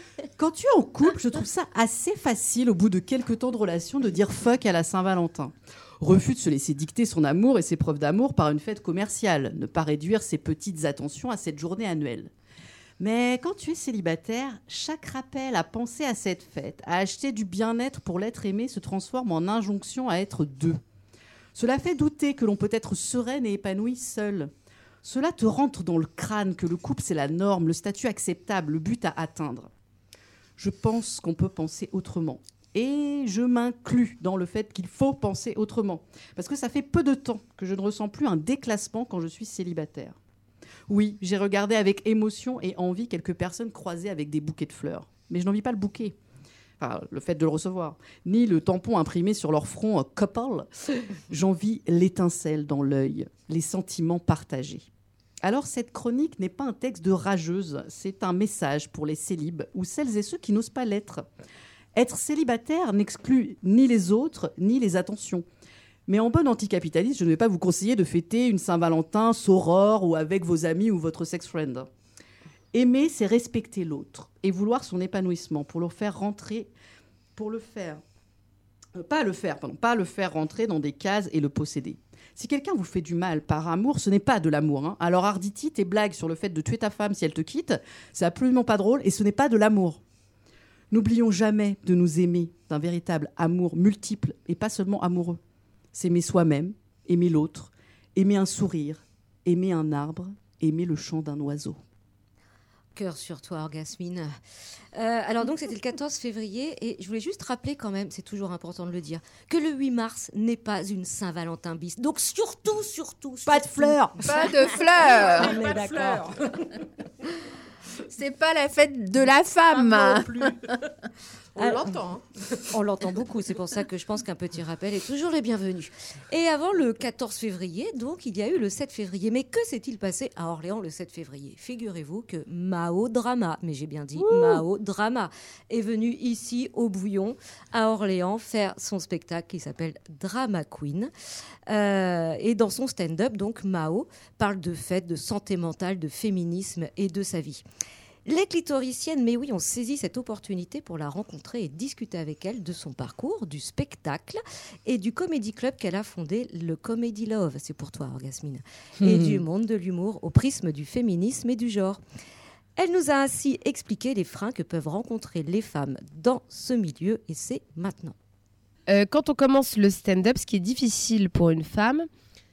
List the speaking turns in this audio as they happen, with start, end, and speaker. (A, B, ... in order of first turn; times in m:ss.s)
0:00.4-0:12.3 A
0:13.0-0:20.8 A
0:21.6-0:24.5 A
0:25.0-0:29.7 A
0:30.6-0:40.2 A
0:40.9-0:46.2 A
0:46.8-0:54.9 A
0:55.4-1:01.3 A
1:01.9-1:05.4 A
1:06.1-1:11.9 A
1:12.7-1:16.7 A
1:17.4-1:18.0 A
1:18.9-1:30.0 A
1:30.9-1:35.4 A
1:35.9-1:41.8 A
1:43.0-1:44.4 B
1:44.9-1:54.4 B
1:53.5-1:54.4 A
1:54.3-1:55.6 C
1:55.0-1:56.7 D
1:55.3-1:56.2 B
1:58.1-2:00.8 C
1:59.7-2:00.7 D
2:01.6-2:02.6 D
2:01.6-2:01.9 B
2:02.7-2:21.1 B
2:14.2-2:14.6 A
2:21.7-2:27.6 B
2:28.2-2:42.0 B
2:39.0-2:39.4 A
2:42.8-2:48.2 B
2:48.9-2:52.1 E